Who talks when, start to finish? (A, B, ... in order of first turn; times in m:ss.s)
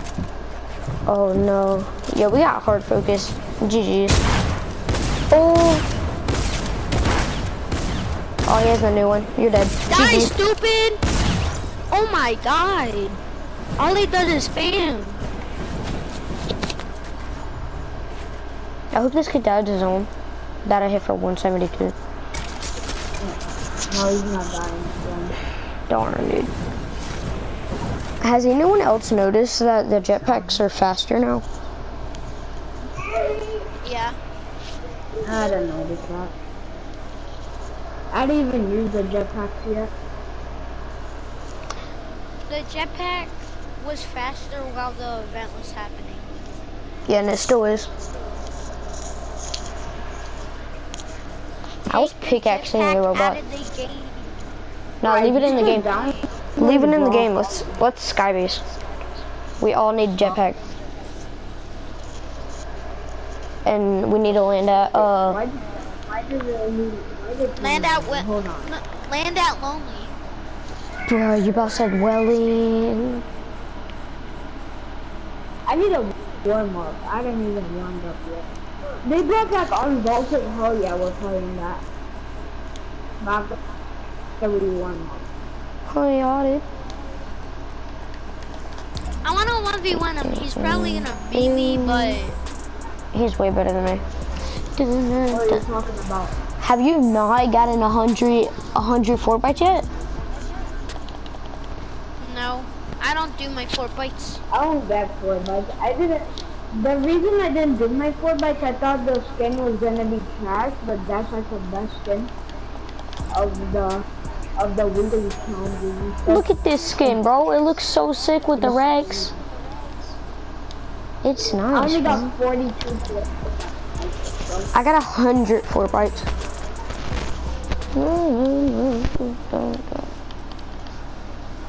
0:01.1-0:04.2 A
0:05.3-0:05.8 A
0:08.4-0:10.3 A
0:09.9-0:11.0 B
0:11.9-0:13.2 B
0:13.8-0:15.2 B
0:18.9-0:20.1 A
0:20.6-0:22.0 A
0:23.2-0:25.3 C
0:25.9-0:26.5 A
0:28.2-0:31.4 A
0:32.9-0:33.7 C
0:33.8-0:34.2 B
0:35.2-0:36.3 C
0:38.1-0:39.9 C
0:42.5-0:46.3 B
0:47.1-0:47.9 A
0:51.9-0:54.3 B
0:51.9-0:53.4 A
0:55.0-0:55.9 A
0:55.0-0:57.8 C
0:55.7-0:56.2 B
0:56.6-0:58.6 A
0:59.6-1:00.6 A
1:03.6-1:05.4 A
1:05.0-1:08.7 C
1:07.6-1:10.1 B
1:11.1-1:13.2 A
1:15.7-1:18.5 C
1:19.0-1:21.8 C
1:23.2-1:23.6 C
1:24.4-1:25.2 C
1:25.9-1:26.6 A
1:29.2-1:32.4 B
1:30.2-1:32.2 A
1:33.1-1:34.0 A
1:34.8-1:35.6 A
1:35.3-1:36.4 C
1:36.6-1:39.9 A
1:42.2-1:44.4 B
1:44.5-1:52.3 C
1:53.3-1:54.0 C
1:54.6-1:56.4 C
1:56.3-1:59.3 A
1:58.6-1:59.4 C
2:01.2-2:02.3 A
2:01.7-2:04.7 C
2:04.7-2:06.3 A
2:07.9-2:10.1 A